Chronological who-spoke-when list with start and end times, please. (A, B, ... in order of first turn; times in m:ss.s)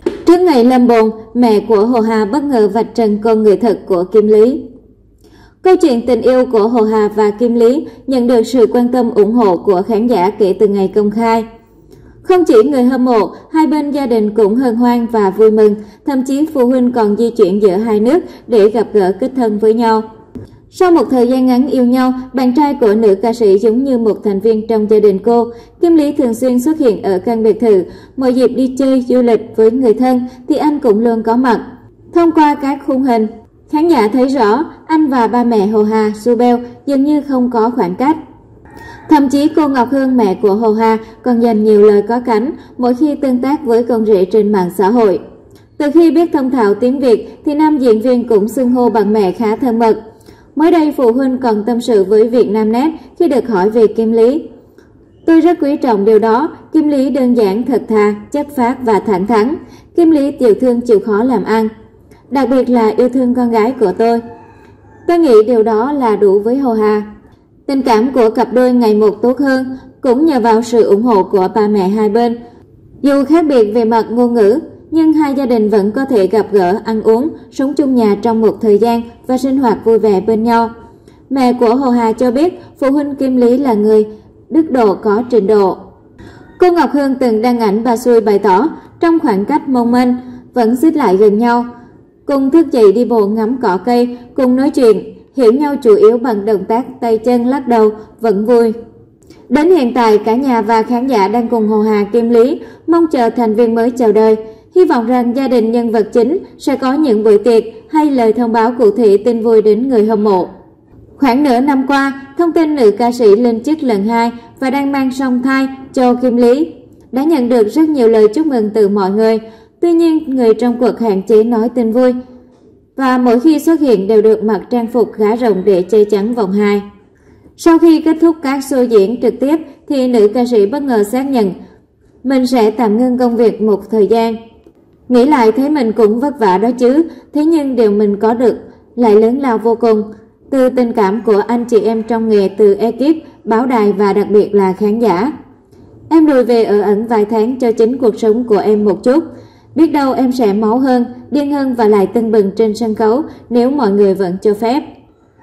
0:00.2-0:04.6 A
0:05.6-0:11.4 A
0:12.2-0:20.0 A
0:20.7-0:38.2 A
0:39.1-0:45.2 A
0:45.8-0:50.0 A
0:50.5-0:54.4 A
0:55.2-1:01.7 A
1:02.3-1:04.2 A
1:05.0-1:07.0 A
1:07.6-1:12.3 A
1:13.0-1:20.7 A
1:21.3-1:25.8 A
1:26.6-1:31.6 A
1:32.2-1:38.7 A
1:39.5-1:50.5 A
1:51.2-2:02.1 A
2:03.0-2:06.8 A
2:07.6-2:11.5 A
2:12.2-2:14.4 A
2:15.1-2:25.3 A
2:26.1-2:34.8 A